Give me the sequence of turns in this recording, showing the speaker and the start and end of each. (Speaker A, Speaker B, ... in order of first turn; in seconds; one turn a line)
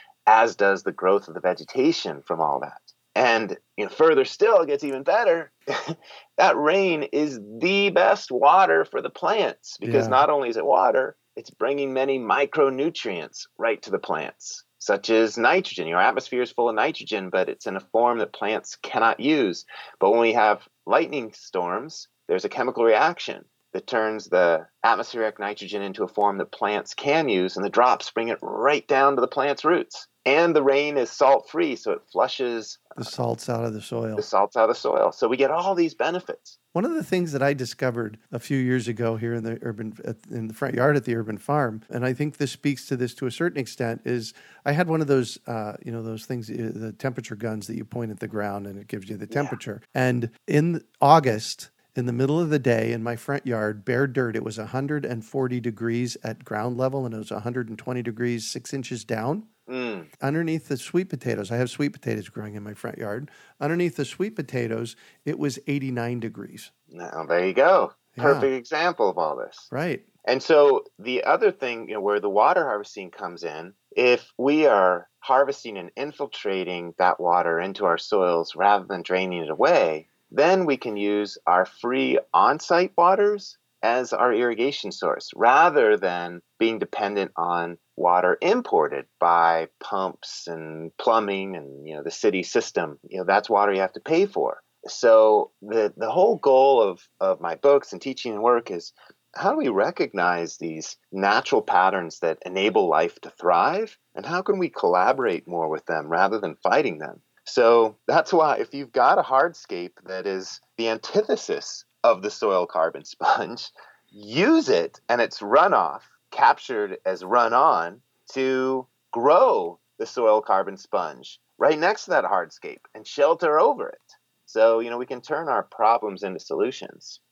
Speaker A: 0.3-33.1
Speaker B: 9.8-10.2
Speaker B: 33.0-34.2
Speaker A: 34.2-36.6
Speaker B: 36.7-59.5
Speaker A: 49.3-49.5
Speaker A: 59.7-60.1
Speaker B: 60.2-66.7
Speaker A: 66.9-69.7
Speaker B: 68.2-68.5
Speaker B: 69.7-70.0
Speaker A: 70.2-127.2